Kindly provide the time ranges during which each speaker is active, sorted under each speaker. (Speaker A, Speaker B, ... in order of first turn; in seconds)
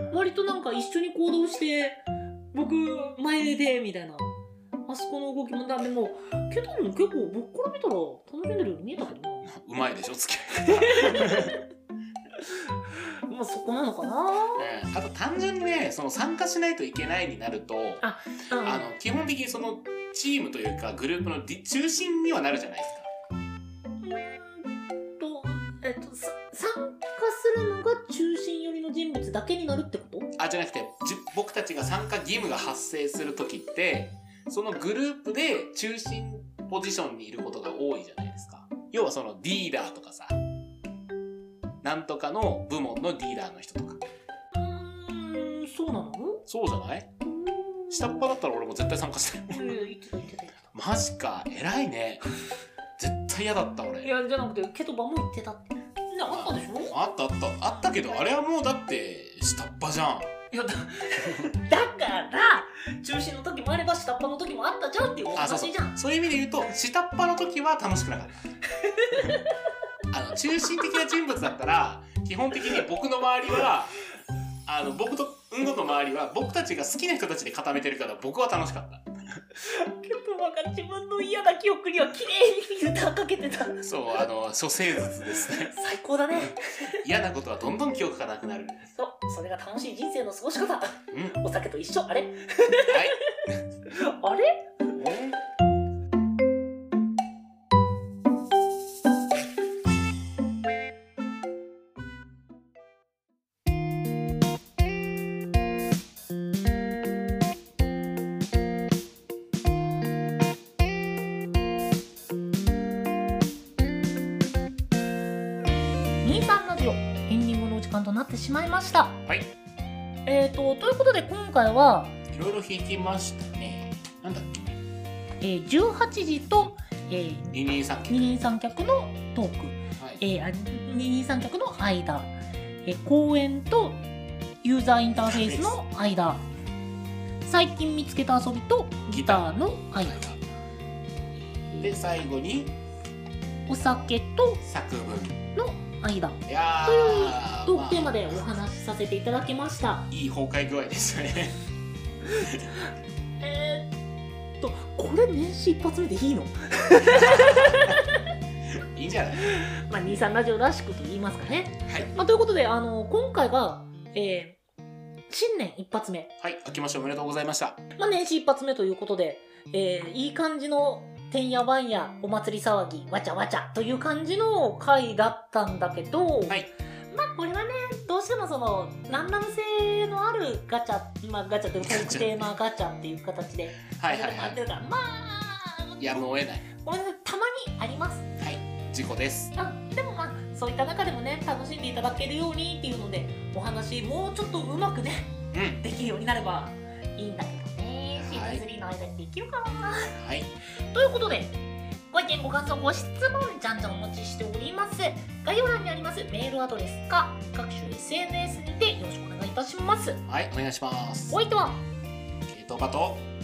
Speaker A: 0.1-4.3, 4.9-9.5, 10.7-11.6, 12.7-14.7, 18.0-18.9, 24.0-30.3, 44.5-46.4, 47.2-48.2, 49.5-50.6, 54.0-57.0, 60.5-66.0, 68.7-69.5, 79.6-83.9, 85.3-87.0, 88.9-93.1, 93.9-94.7, 116.2-119.2, 120.3-122.2, 125.4-127.5, 128.1-134.0, 134.6-136.4, 137.4-140.2, 143.7-144.6, 145.6-150.1, 152.3-152.8, 153.4-153.9, 154.6-158.2, 159.5-164.6, 165.3-166.3, 168.0-188.3, 189.6-200.2, 200.9-201.6, 202.1-210.2, 211.3-211.8
Speaker B: 9.4-11.6, 14.6-18.1, 18.6-23.1, 30.4-40.4, 41.8-44.0, 46.5-47.1, 47.9-49.8, 50.7-52.3, 53.0-54.1, 56.3-60.3, 65.3-68.4, 70.1-74.0, 74.7-79.1, 83.8-85.7, 87.0-88.8, 91.1-91.4, 92.9-93.5, 95.0-95.4, 119.3-119.5, 122.3-124.8, 127.5-128.4, 130.0-130.2, 135.2-135.8, 139.1-140.4, 141.8-142.8, 144.6-145.4, 146.5-148.4, 150.1-151.6, 157.1-157.8, 158.9-159.5, 161.9-162.2, 166.4-167.8, 181.8-182.5, 183.9-184.6, 186.0-186.7, 188.4-189.5, 195.5-195.8, 198.2-198.6, 200.2-200.5, 210.3-211.4, 212.5-213.3